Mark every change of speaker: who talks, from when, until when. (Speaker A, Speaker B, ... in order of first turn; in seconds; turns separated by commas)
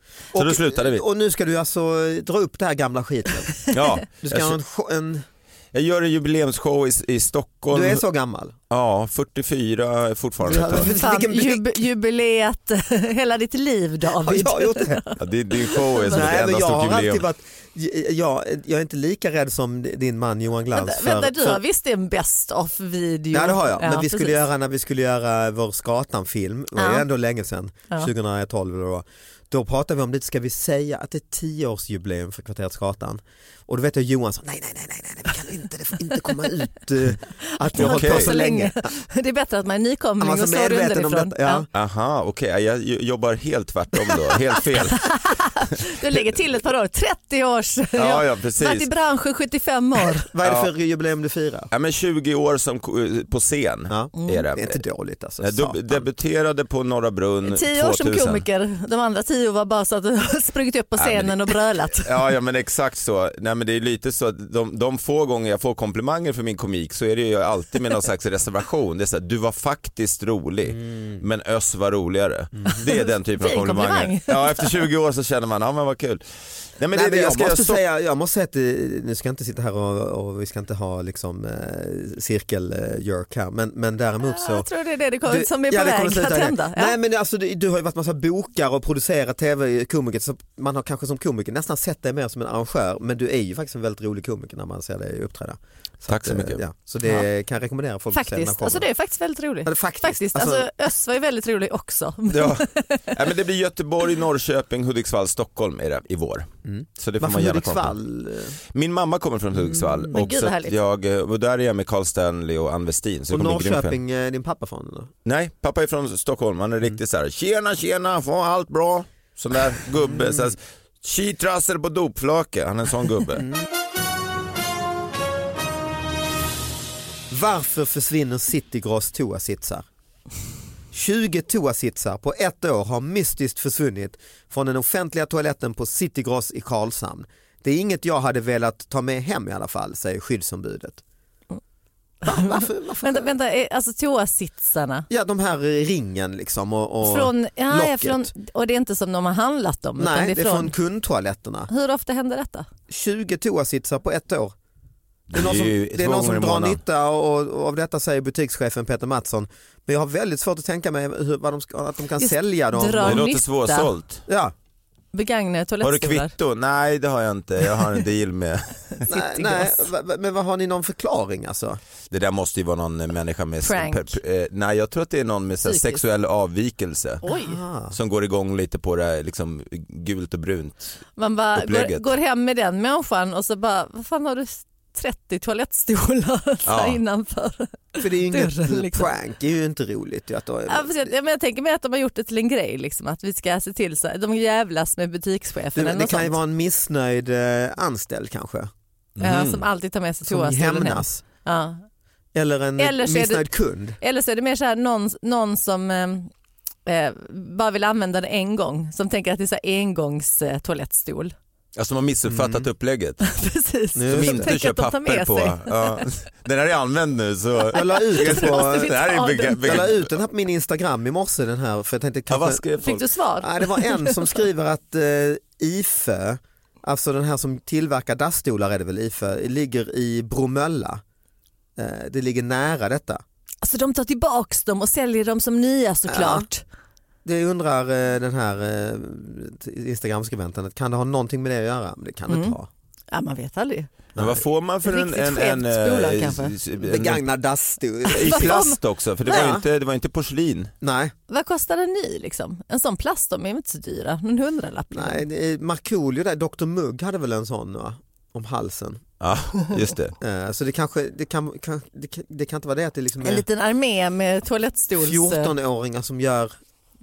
Speaker A: 0.3-5.2, Speaker B: 0.3-1.0, Speaker B: 3.7-4.6, Speaker B: 5.7-8.0, Speaker A: 7.7-8.5, Speaker B: 8.7-10.9, Speaker A: 10.4-11.6, Speaker C: 10.9-15.2, Speaker A: 14.2-15.0, Speaker B: 15.2-17.2, Speaker C: 15.8-16.2, Speaker A: 16.0-21.6, Speaker C: 20.7-24.4, Speaker A: 23.3-38.9, Speaker C: 26.8-27.1, Speaker C: 37.7-41.6, Speaker B: 37.8-38.3, Speaker A: 40.2-41.7, Speaker B: 41.7-45.1, Speaker C: 45.0-50.3, Speaker B: 48.0-48.9, Speaker A: 50.3-51.7, Speaker B: 50.4-50.7, Speaker B: 51.7-54.8, Speaker A: 53.9-56.0, Speaker C: 54.2-54.4, Speaker B: 55.4-58.4, Speaker C: 57.5-62.1, Speaker B: 61.0-76.2, Speaker A: 70.7-71.2, Speaker C: 72.9-74.8, Speaker B: 76.8-77.8, Speaker A: 76.9-84.7, Speaker C: 84.2-87.0, Speaker A: 85.2-98.9, Speaker B: 96.1-96.6, Speaker C: 98.1-103.1, Speaker A: 99.6-100.7, Speaker B: 102.3-108.0, Speaker A: 106.7-108.6, Speaker B: 108.7-114.0, Speaker A: 109.5-110.2, Speaker C: 110.1-110.7, Speaker A: 113.3-115.1, Speaker B: 115.2-123.5, Speaker A: 120.0-120.5, Speaker A: 127.3-129.8, Speaker A: 130.9-141.0, Speaker A: 142.2-143.3, Speaker C: 142.2-145.1, Speaker A: 145.1-148.3, Speaker C: 147.0-150.7, Speaker A: 150.0-151.7, Speaker C: 151.7-152.7, Speaker A: 152.9-154.5, Speaker B: 155.3-156.8, Speaker A: 155.3-163.2, Speaker C: 162.2-163.9, Speaker B: 163.0-164.2, Speaker A: 164.3-164.5, Speaker C: 165.1-166.3, Speaker B: 165.8-169.1, Speaker A: 169.1-171.8, Speaker C: 169.2-169.8, Speaker B: 172.1-177.2, Speaker C: 173.6-174.2, Speaker C: 175.6-176.0, Speaker C: 177.2-177.6, Speaker A: 177.2-177.9, Speaker B: 177.9-181.0, Speaker C: 181.2-189.1, Speaker B: 181.5-182.1, Speaker B: 186.7-187.0, Speaker A: 188.0-191.1, Speaker C: 190.7-196.4, Speaker A: 195.7-198.7, Speaker B: 199.2-199.6, Speaker C: 199.2-201.8, Speaker A: 200.2-201.2, Speaker A: 202.3-204.0, Speaker C: 202.8-203.5, Speaker C: 204.0-206.3, Speaker C: 206.8-211.3, Speaker B: 211.7-213.2, Speaker A: 212.3-212.7, Speaker C: 213.2-216.1, Speaker A: 213.9-214.5, Speaker B: 214.1-220.1, Speaker A: 217.7-219.0, Speaker C: 217.7-219.9, Speaker A: 219.6-222.6, Speaker B: 222.3-223.1, Speaker C: 222.8-224.3, Speaker A: 223.4-231.0, Speaker A: 231.8-233.2, Speaker C: 233.6-236.6, Speaker A: 236.1-236.5, Speaker A: 237.2-242.7, Speaker C: 242.3-242.6, Speaker C: 243.1-243.9, Speaker A: 244.1-244.4, Speaker B: 244.2-247.2, Speaker C: 244.8-246.6, Speaker A: 246.8-248.6, Speaker C: 248.1-248.8, Speaker B: 248.1-250.7, Speaker A: 249.2-249.6, Speaker A: 250.8-251.1, Speaker C: 251.3-255.2, Speaker A: 254.9-259.0, Speaker B: 259.2-260.1, Speaker A: 260.2-263.4, Speaker C: 263.2-265.5, Speaker A: 265.0-266.6